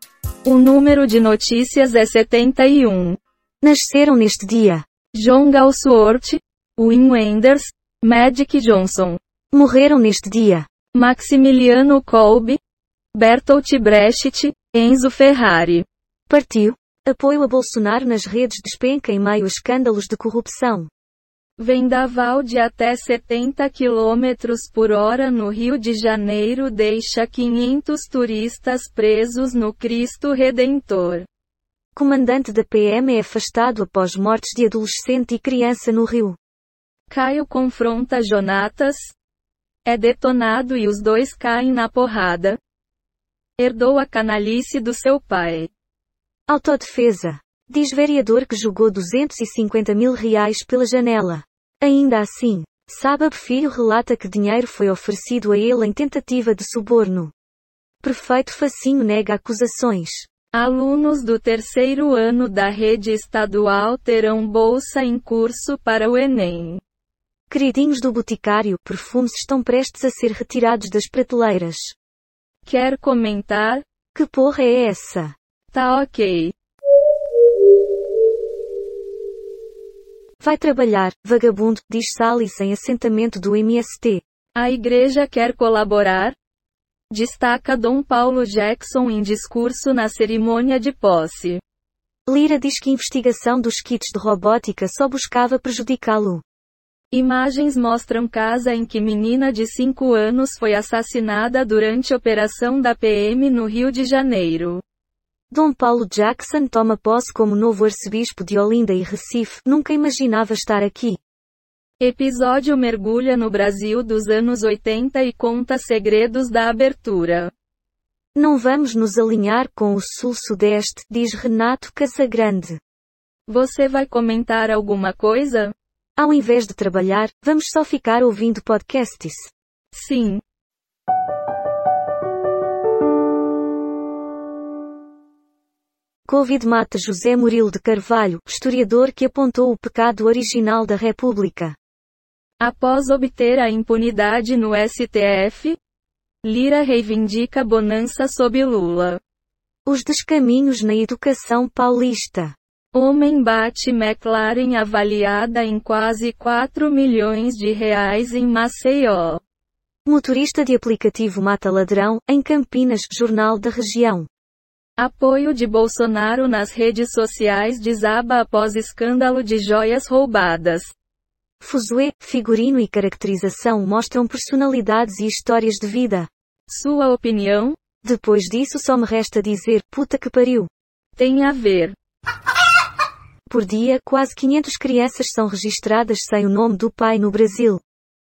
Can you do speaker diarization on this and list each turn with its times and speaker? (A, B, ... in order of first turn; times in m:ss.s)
0:00.4-0:03.2 A
0:03.6-0:04.8 B
0:05.1-0:09.2 A
0:09.5-0:10.7 B
0:10.9-0:12.6 A
0:13.1-0:15.8 A
0:16.3-0:20.9 B
0:21.6-0:31.2 A
0:32.0-0:36.4 B
0:37.1-0:39.1 A
0:39.8-0:42.6 A
0:43.6-0:45.7 A
0:46.5-0:57.3 B
0:58.0-1:00.3 B
1:00.5-1:06.8 A
1:07.5-1:12.0 B
1:12.7-1:13.8 A
1:14.1-1:15.3 B
1:15.7-1:16.5 A
1:20.4-1:24.2 B
1:24.6-1:26.3 A
1:27.1-1:31.6 A
1:32.3-1:36.4 B
1:37.1-1:44.8 A
1:45.5-1:51.2 B
1:52.0-1:57.5 A
1:58.3-2:02.8 B
2:03.5-2:05.7 A
2:06.2-2:09.5 B
2:09.9-2:10.4 A
2:16.3-2:21.8 B
2:22.6-2:25.8 A
2:26.4-2:29.2 A
2:29.9-2:32.6 B
2:32.9-2:39.4 A
2:40.1-2:44.3 B
2:45.0-2:50.9 A
2:51.6-2:56.3 B
2:56.7-2:57.8 A
2:58.0-3:00.7 B
3:01.2-3:01.9 A
3:03.5-3:07.8 B